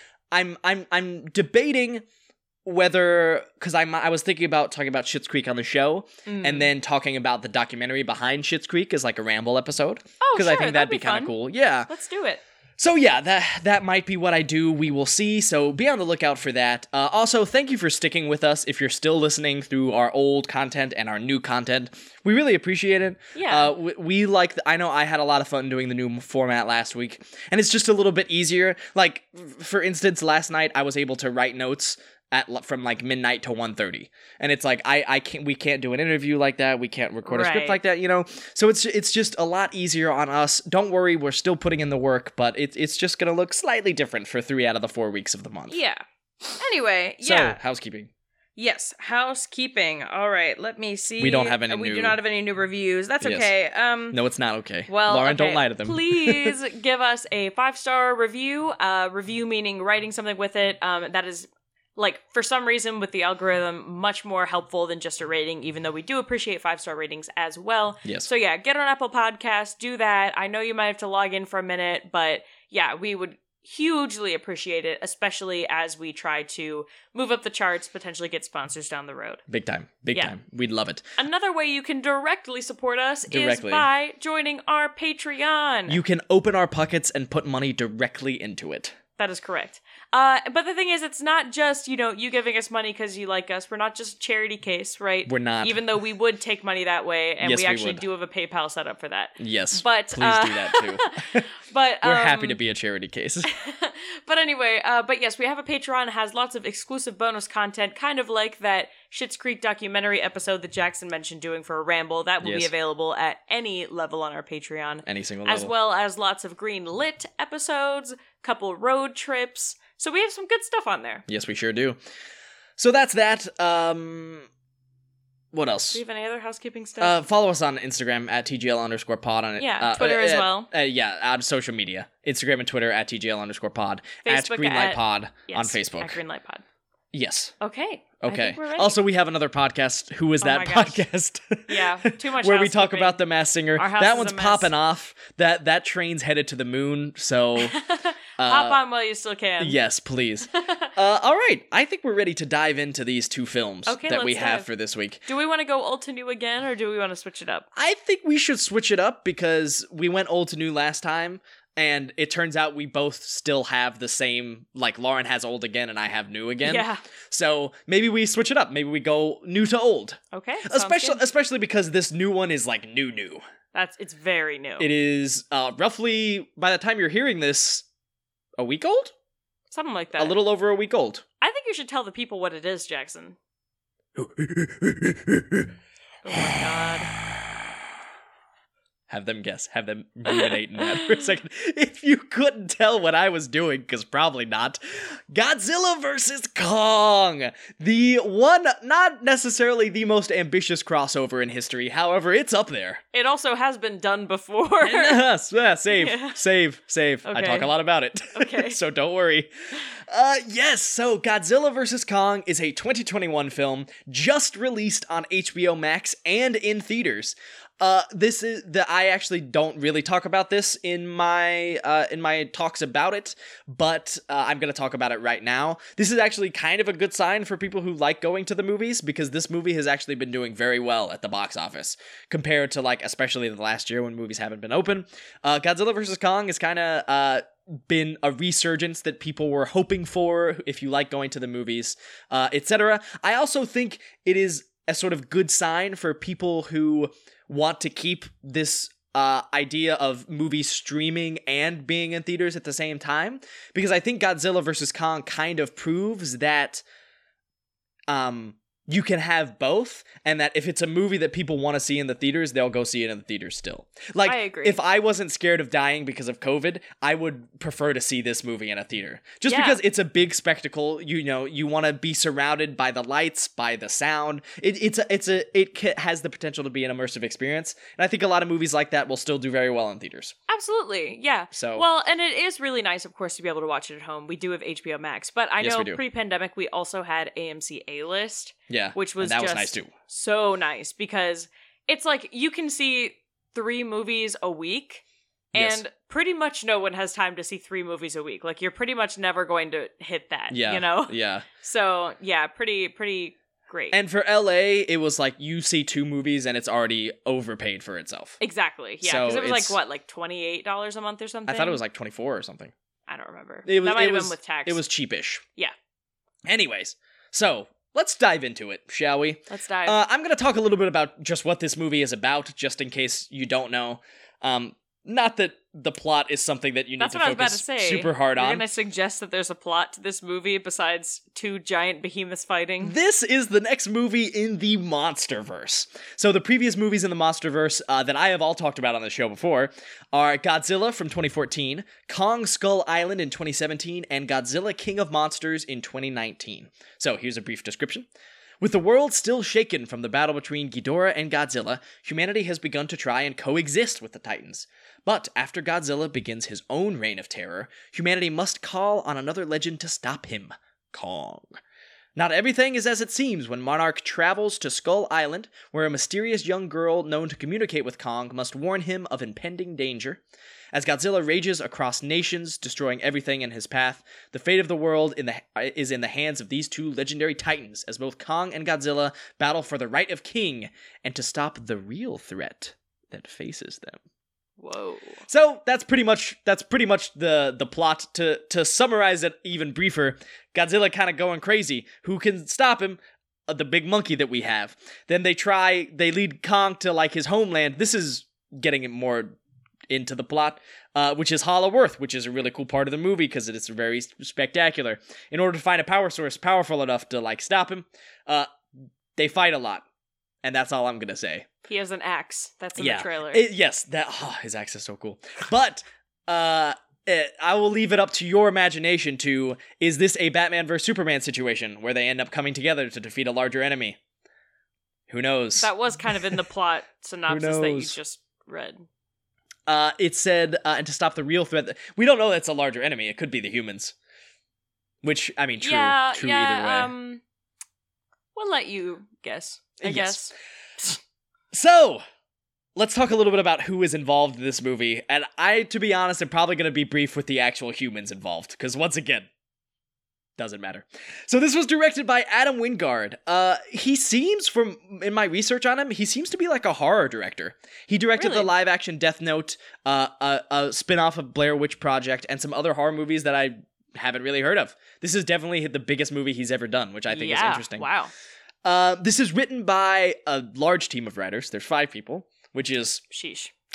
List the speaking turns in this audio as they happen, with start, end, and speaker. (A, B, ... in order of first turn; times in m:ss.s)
0:00.3-0:02.0 A
0:02.6-0:11.9 A
0:06.2-0:06.7 B
0:10.2-0:11.3 B
0:11.9-0:12.4 B
0:12.8-0:45.8 A
0:23.3-0:23.7 B
0:37.2-0:37.8 B
0:45.7-0:47.6 B
0:47.2-0:48.1 A
0:48.6-0:54.2 B
0:51.2-0:52.2 A
0:53.2-0:53.5 A
0:54.1-0:56.5 A
0:54.9-1:19.4 B
1:08.0-1:08.3 A
1:19.5-1:21.0 A
1:21.2-1:26.0 B
1:23.3-1:23.9 A
1:25.9-1:29.0 A
1:29.2-1:42.6 B
1:35.2-1:35.8 A
1:37.4-1:38.0 A
1:39.4-1:41.5 A
1:42.0-1:43.5 A
1:43.4-2:01.2 B
1:52.4-1:52.7 A
1:55.0-1:55.7 A
2:01.3-2:02.0 A
2:02.8-2:04.5 A
2:05.5-2:06.0 A
2:05.9-2:07.2 B
2:07.0-2:16.2 A
2:09.6-2:10.7 B
2:14.2-2:16.6 B
2:17.1-2:17.5 A
2:17.6-2:19.0 B
2:18.2-2:27.8 A
2:20.4-2:21.0 B
2:21.7-2:23.2 B
2:23.8-2:24.7 B
2:27.6-2:29.8 B
2:28.4-2:28.8 A
2:29.6-2:35.2 A
2:30.5-2:30.9 B
2:33.8-2:34.7 B
2:35.3-2:37.7 B
2:37.8-2:53.4 A
2:46.6-2:47.0 B
2:50.3-2:51.2 B
2:53.7-2:54.9 B
2:54.8-2:57.8 A
2:58.6-2:59.1 A
2:59.7-3:00.4 B
3:00.2-3:01.2 A
3:01.4-3:03.4 B
3:04.2-3:05.7 A
3:06.2-3:07.1 B
3:06.3-3:07.5 A
3:09.1-3:23.0 A
3:10.3-3:11.2 B
3:23.1-3:25.2 B
3:24.8-4:16.8 A
3:25.9-3:26.4 B
3:27.2-3:27.7 B
3:28.3-3:28.8 B
4:18.1-4:40.3 A
4:24.2-4:24.8 B
4:29.5-4:29.8 B
4:40.5-5:04.0 B
4:41.5-4:41.8 A
4:45.6-4:46.0 A
4:48.7-4:49.9 A
4:55.5-4:55.8 A
5:00.5-5:01.4 A
5:03.9-5:08.4 A
5:08.4-5:11.8 B
5:09.0-5:09.8 A
5:11.5-5:12.7 A
5:13.1-5:14.8 B
5:13.6-5:15.4 A
5:16.4-5:28.6 A
5:19.5-5:20.0 B
5:27.0-5:33.0 B
5:32.8-5:48.1 A
5:48.6-6:01.6 A
6:02.2-6:10.2 A
6:10.7-6:24.0 A
6:24.6-6:25.2 B
6:25.3-6:39.4 A
6:39.9-6:48.5 A
6:49.1-6:49.8 A
6:50.4-6:51.5 A
6:51.7-6:53.5 B
6:52.8-7:04.0 A
7:05.1-7:06.4 A
7:05.6-7:08.8 B
7:07.3-7:07.9 A
7:09.7-7:13.9 A
7:15.0-7:16.9 A
7:15.6-7:17.2 B
7:18.3-7:20.3 B
7:19.8-7:20.3 A
7:21.5-7:22.0 A
7:22.7-7:29.3 A
7:30.4-7:47.9 A
7:38.2-7:38.5 B
7:47.1-7:48.1 B
7:48.6-7:53.0 A
7:53.1-7:53.5 B